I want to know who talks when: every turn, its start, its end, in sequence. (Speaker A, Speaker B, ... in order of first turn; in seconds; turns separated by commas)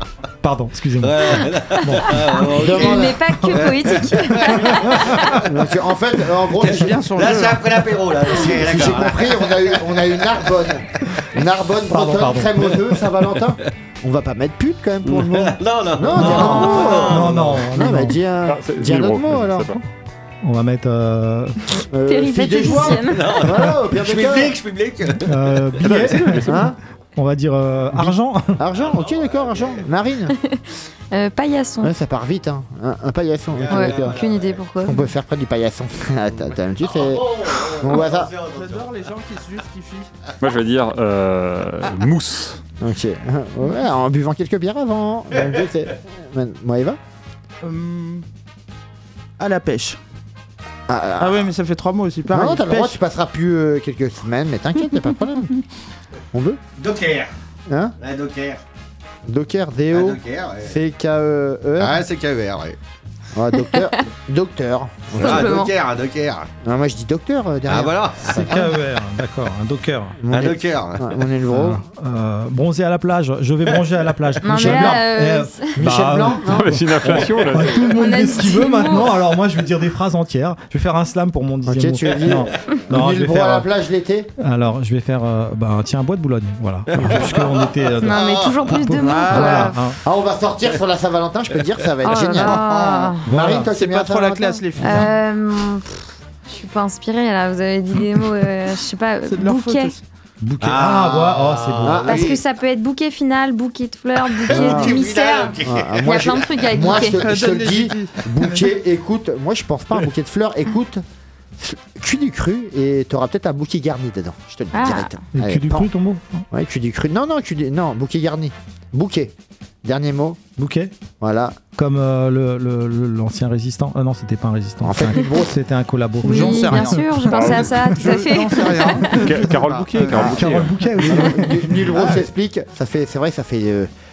Speaker A: 0.4-2.2, Speaker B: 1.0-5.5, Speaker C: 2.0-5.4, Speaker D: 2.4-3.2, Speaker A: 4.5-5.3, Speaker D: 5.3-7.0, Speaker E: 6.5-7.8, Speaker B: 7.1-10.0, Speaker D: 8.3-19.8, Speaker A: 11.9-12.7, Speaker B: 15.0-17.7, Speaker A: 16.1-18.2, Speaker F: 18.4-19.8, Speaker A: 20.4-21.6, Speaker D: 21.9-24.6, Speaker C: 22.0-23.5, Speaker B: 22.9-26.4, Speaker A: 25.2-26.6, Speaker F: 25.9-26.7, Speaker D: 26.4-26.8, Speaker A: 27.1-28.6, Speaker D: 27.9-30.4, Speaker B: 28.7-29.9, Speaker C: 30.3-31.9, Speaker D: 31.8-34.2, Speaker B: 33.5-34.6, Speaker C: 33.7-35.1, Speaker D: 34.8-38.3, Speaker B: 36.4-38.9, Speaker E: 38.5-40.1, Speaker F: 40.4-42.6, Speaker D: 42.8-47.0, Speaker E: 47.6-48.2, Speaker E: 49.4-50.0, Speaker D: 50.9-51.5, Speaker E: 51.2-53.0, Speaker D: 52.3-55.5, Speaker D: 56.3-56.6, Speaker B: 56.8-57.3, Speaker D: 57.7-58.0, Speaker B: 58.0-58.6, Speaker D: 59.2-62.0, Speaker B: 59.9-60.8, Speaker B: 61.8-62.8, Speaker D: 63.3-65.7, Speaker C: 63.6-64.0, Speaker B: 65.1-66.5, Speaker C: 65.2-65.7, Speaker D: 66.6-68.7, Speaker B: 67.7-68.5, Speaker A: 68.2-70.2, Speaker D: 70.2-71.8, Speaker B: 70.3-71.1, Speaker A: 71.5-83.7, Speaker C: 74.4-75.9, Speaker D: 74.5-75.0, Speaker D: 75.8-77.3, Speaker F: 76.4-77.8, Speaker C: 77.8-79.2, Speaker D: 81.6-84.3, Speaker B: 82.0-82.4, Speaker A: 84.4-90.0, Speaker B: 86.9-88.8, Speaker C: 88.0-89.8, Speaker E: 89.0-89.7, Speaker D: 90.0-94.7, Speaker C: 92.0-93.3, Speaker A: 93.2-93.7, Speaker E: 93.7-95.1, Speaker C: 94.8-100.0, Speaker A: 94.8-95.1, Speaker E: 99.3-100.0, Speaker A: 100.4-102.1, Speaker B: 100.6-102.4, Speaker D: 101.8-102.4, Speaker C: 102.1-107.3, Speaker B: 104.3-106.2, Speaker D: 104.5-105.0, Speaker D: 105.6-111.0, Speaker E: 107.0-108.7, Speaker D: 111.6-115.9, Speaker C: 114.7-115.2, Speaker A: 115.3-116.5, Speaker D: 116.5-119.3, Speaker D: 119.8-120.4, Speaker A: 120.6-120.9, Speaker D: 121.2-121.6, Speaker A: 121.7-127.4, Speaker D: 124.8-125.6, Speaker C: 126.2-129.2, Speaker E: 126.2-130.3, Speaker F: 127.2-127.8, Speaker F: 129.1-130.8, Speaker D: 130.1-133.9, Speaker A: 130.1-132.2